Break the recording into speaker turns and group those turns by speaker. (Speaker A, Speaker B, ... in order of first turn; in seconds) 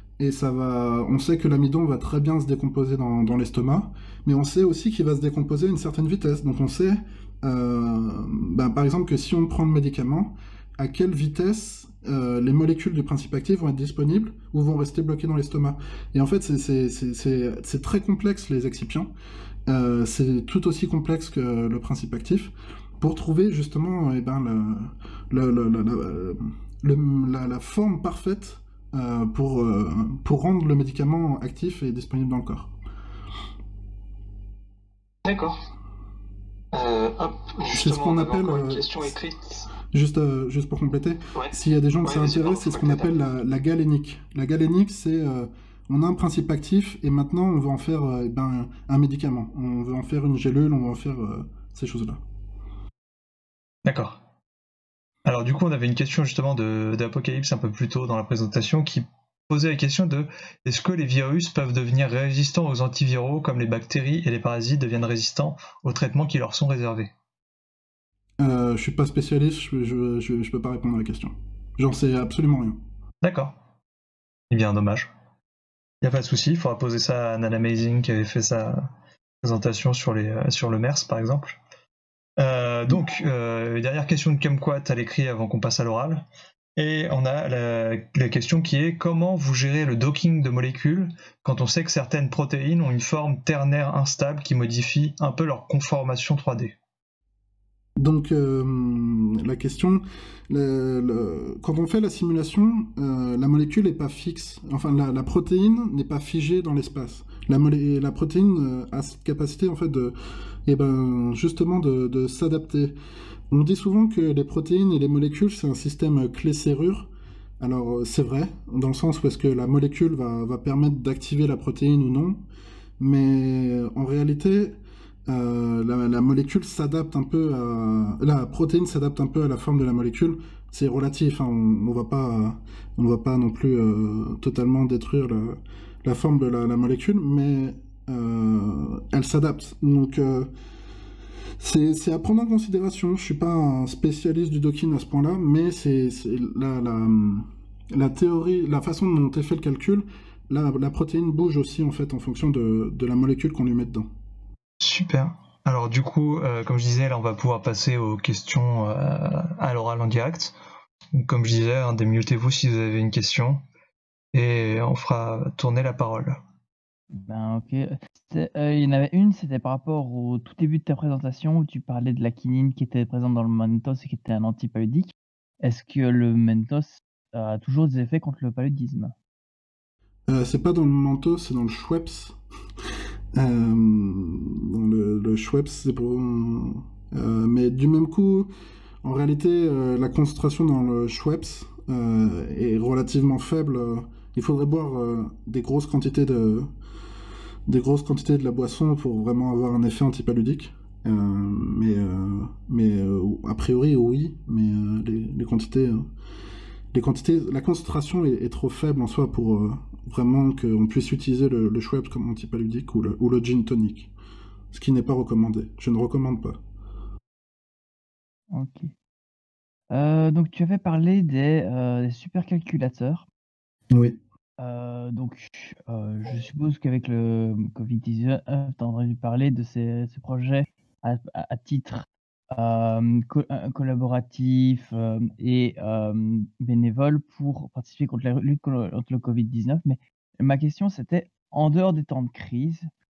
Speaker A: 0.2-19.1, 19.7-32.7, 37.7-39.1, 39.9-52.2, 68.4-72.8, 98.0-113.0, 113.5-117.1, 117.6-122.4, 123.0-140.5, 141.6-154.1, 180.3-182.3, 183.3-188.5, 189.0-196.7, 197.7-206.1, 206.9-214.1, 214.7-216.6, 223.9-224.2
Speaker B: 35.2-35.6, 36.7-39.7, 42.0-43.1
Speaker C: 53.8-54.2, 55.2-67.1, 73.2-73.5, 74.5-75.1, 76.0-78.9, 79.4-81.6, 82.4-96.7, 154.8-160.5, 161.1-163.6, 164.3-166.4
Speaker D: 167.2-179.1, 218.5-218.9, 219.9-223.3, 224.6-242.9